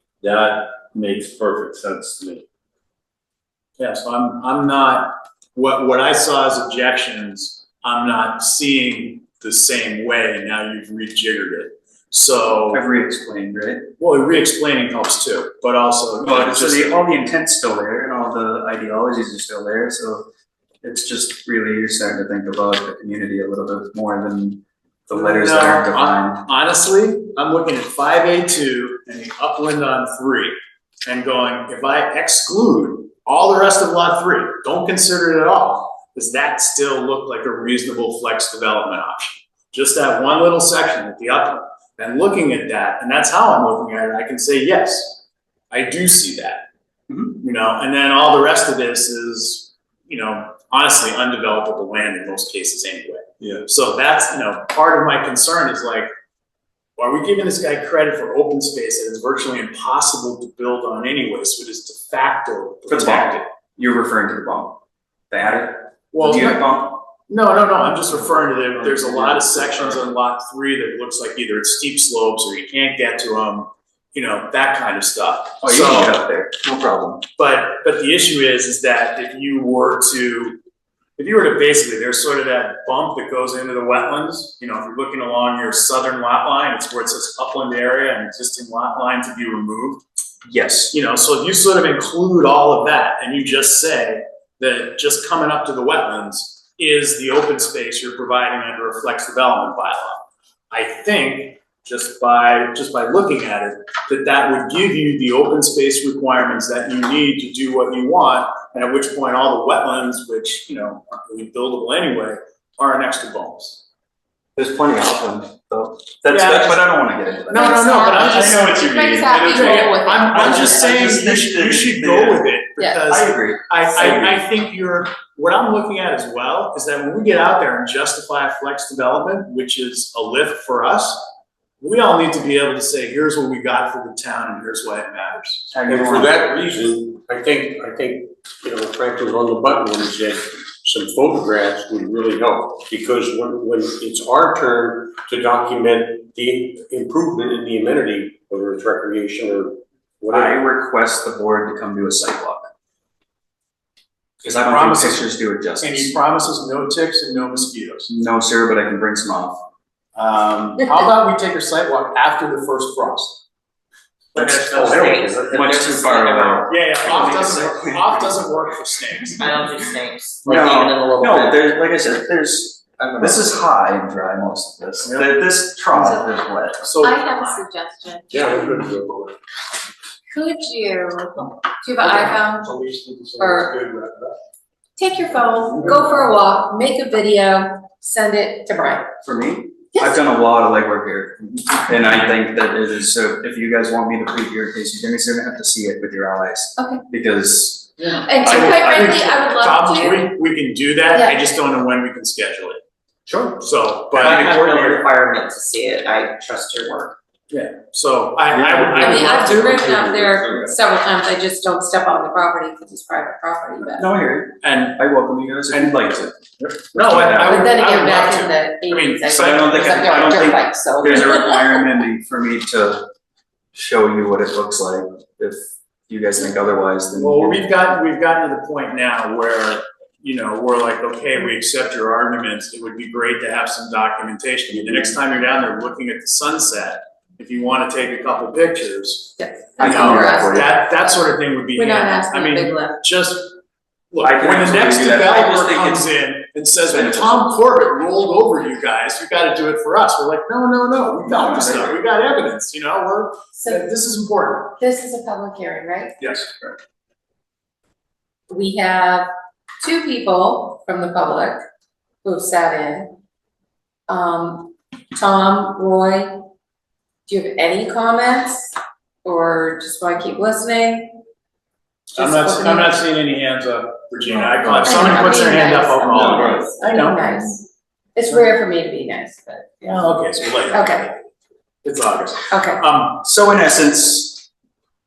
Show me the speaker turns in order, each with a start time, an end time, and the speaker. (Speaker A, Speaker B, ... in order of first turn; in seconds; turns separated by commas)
Speaker A: 0.2-2.5, Speaker B: 3.8-12.8, Speaker C: 12.7-13.9, Speaker B: 14.0-17.0, Speaker C: 16.2-20.3, Speaker C: 20.8-26.5, Speaker B: 25.1-46.7, Speaker B: 47.4-56.1, Speaker B: 57.0-63.5, Speaker C: 62.9-67.0, Speaker B: 66.1-76.2, Speaker C: 75.6-77.2, Speaker B: 77.4-80.6, Speaker B: 81.2-90.0, Speaker C: 90.4-90.9, Speaker B: 90.9-113.8, Speaker C: 114.6-122.5, Speaker B: 116.3-116.9, Speaker D: 117.5-121.1, Speaker B: 117.5-131.3, Speaker C: 123.1-124.4, Speaker B: 131.8-135.7, Speaker C: 135.7-136.4, Speaker E: 135.9-150.6, Speaker C: 150.3-152.7, Speaker B: 154.4-155.2, Speaker C: 154.4-156.1, Speaker B: 155.8-158.1, Speaker C: 158.1-159.6, Speaker C: 160.2-160.8, Speaker B: 160.3-163.4, Speaker F: 164.3-166.7, Speaker C: 164.3-168.6, Speaker E: 164.7-165.7, Speaker B: 166.7-169.4, Speaker F: 169.4-171.6, Speaker C: 170.4-176.9, Speaker B: 175.0-175.3, Speaker D: 175.9-176.3, Speaker B: 176.8-177.6, Speaker D: 177.0-178.4, Speaker E: 178.3-179.3, Speaker D: 180.3-182.7, Speaker E: 182.1-184.2, Speaker D: 183.4-183.8, Speaker D: 185.0-189.1, Speaker C: 189.2-199.2, Speaker D: 189.9-190.2, Speaker D: 196.8-197.0, Speaker B: 198.0-202.8, Speaker D: 198.2-200.3, Speaker D: 201.1-201.4, Speaker B: 203.6-205.0, Speaker C: 204.1-204.6, Speaker F: 204.2-207.1, Speaker B: 207.5-210.0, Speaker D: 209.0-214.1, Speaker C: 213.8-217.7, Speaker B: 214.6-215.0, Speaker B: 215.7-216.0, Speaker B: 216.6-220.4, Speaker D: 217.4-221.9, Speaker C: 219.3-223.1, Speaker C: 223.7-227.7, Speaker B: 227.1-243.6, Speaker D: 239.4-240.8, Speaker C: 239.8-240.7, Speaker D: 241.8-243.0, Speaker B: 244.1-254.8, Speaker C: 244.2-246.1, Speaker C: 246.9-247.5, Speaker C: 251.2-252.0, Speaker D: 253.6-253.9, Speaker D: 254.8-256.2, Speaker B: 256.2-256.8, Speaker D: 258.5-259.3, Speaker D: 259.8-261.6, Speaker D: 262.2-263.2, Speaker D: 264.1-266.4, Speaker D: 267.3-271.2, Speaker D: 272.2-273.0, Speaker B: 272.2-277.6, Speaker C: 274.3-275.4, Speaker D: 274.9-280.1, Speaker C: 276.1-276.7, Speaker B: 279.9-281.2, Speaker D: 280.7-281.1, Speaker B: 281.8-283.2, Speaker D: 282.5-282.8, Speaker C: 283.2-284.5